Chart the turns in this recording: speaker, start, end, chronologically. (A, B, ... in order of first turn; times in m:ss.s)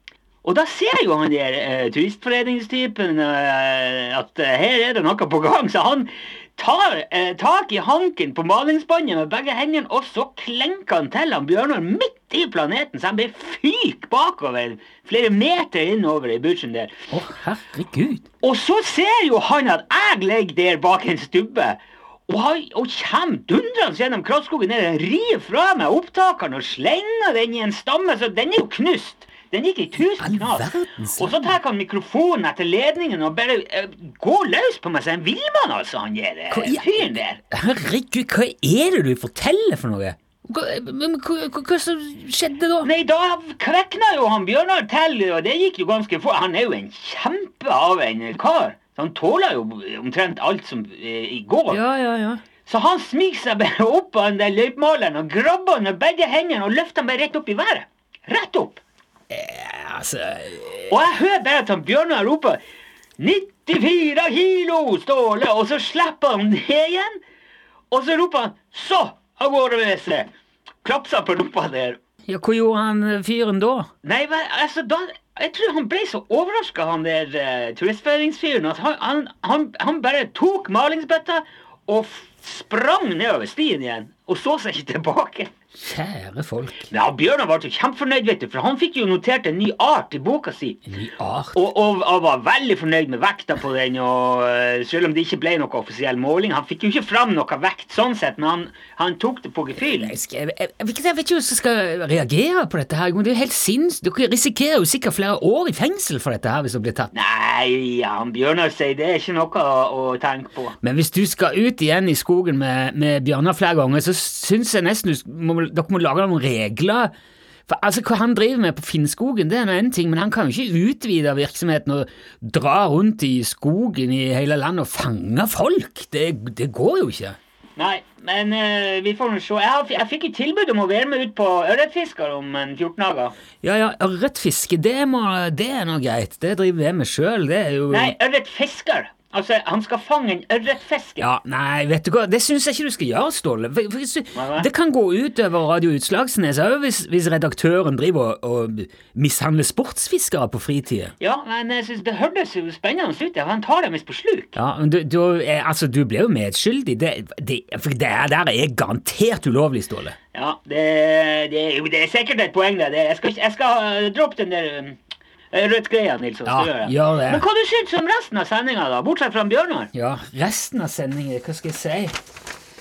0:00.4-0:17.0 A
0:17.1-0:18.2 B
0:18.4-0:37.4 A
0:30.2-0:31.5 B
0:36.5-0:42.9 B
0:42.8-0:51.8 A
0:51.7-0:52.4 B
0:52.7-0:58.8 A
0:59.3-1:00.9 B
1:00.9-1:02.6 A
1:03.2-1:07.1 A
1:07.9-1:10.3 A
1:10.8-1:12.0 A
1:12.3-1:13.9 B
1:14.0-1:25.5 A
1:25.8-1:26.9 B
1:26.9-1:30.8 A
1:30.9-1:31.6 B
1:31.5-1:40.1 A
1:39.8-1:47.1 B
1:47.1-1:50.8 A
1:50.8-1:57.1 B
1:57.7-2:07.4 B
2:07.8-2:13.3 A
2:13.6-2:18.2 B
2:17.9-2:21.3 A
2:21.2-2:31.1 B
2:24.3-2:24.7 A
2:31.2-2:34.6 A
2:34.5-2:40.2 B
2:40.3-2:45.0 A
2:45.5-2:49.9 A
2:46.5-2:47.4 B
2:49.9-2:52.1 B